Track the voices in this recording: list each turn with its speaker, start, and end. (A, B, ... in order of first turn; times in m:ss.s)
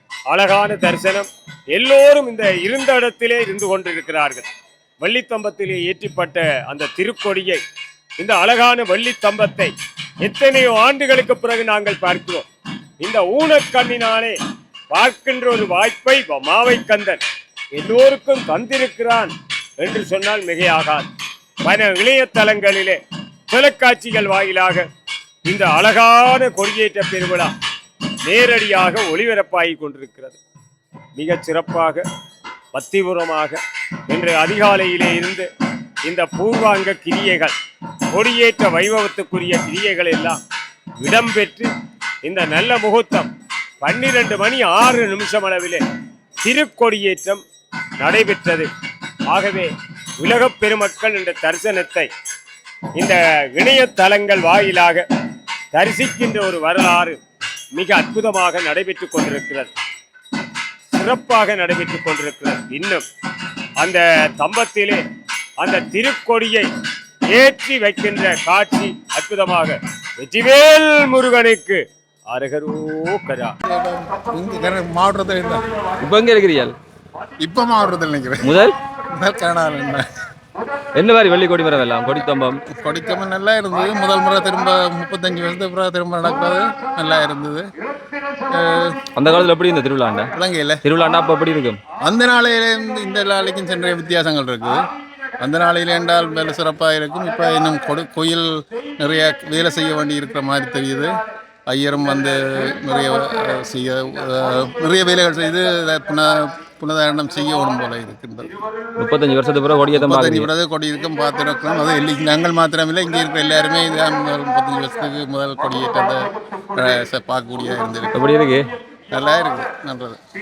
0:00.3-0:04.5 A
0:05.0-0:07.6 A
0:08.2-0:12.4 A
0:13.0-0:14.4 A
0:14.9-0:17.2 A
0:17.8-0:21.0 A
0:21.6-0:24.9 A
0:25.4-0:27.5 A
0:28.2-0:30.4 A
0:31.2-0:32.0 A
0:32.7-0:35.5 A
0:36.0-0:37.5 A
0:38.1-0:40.4 A
0:41.0-0:41.7 A
0:42.2-0:43.3 A
0:43.8-0:45.8 A
0:46.4-0:47.4 A
0:48.0-0:48.7 A
0:49.3-0:52.1 A
0:53.0-0:55.0 A
0:55.7-0:57.2 A
0:57.7-0:59.7 A
1:00.9-1:03.0 A
1:03.8-1:05.0 A
1:05.6-1:06.7 A
1:07.3-1:13.5 A
1:13.6-1:15.6 B
1:16.0-1:16.7 C
1:17.4-1:20.0 B
1:18.4-1:18.7 C
1:21.0-1:22.6 C
1:22.8-1:27.7 B
1:28.5-1:29.0 B
1:29.2-1:30.3 C
1:30.4-1:30.8 B
1:30.8-1:31.8 C
1:32.0-1:34.8 B
1:35.4-1:41.1 B
1:41.7-1:48.5 B
1:49.0-1:50.5 C
1:50.0-1:58.1 B
1:58.1-1:58.7 C
1:59.1-2:00.2 B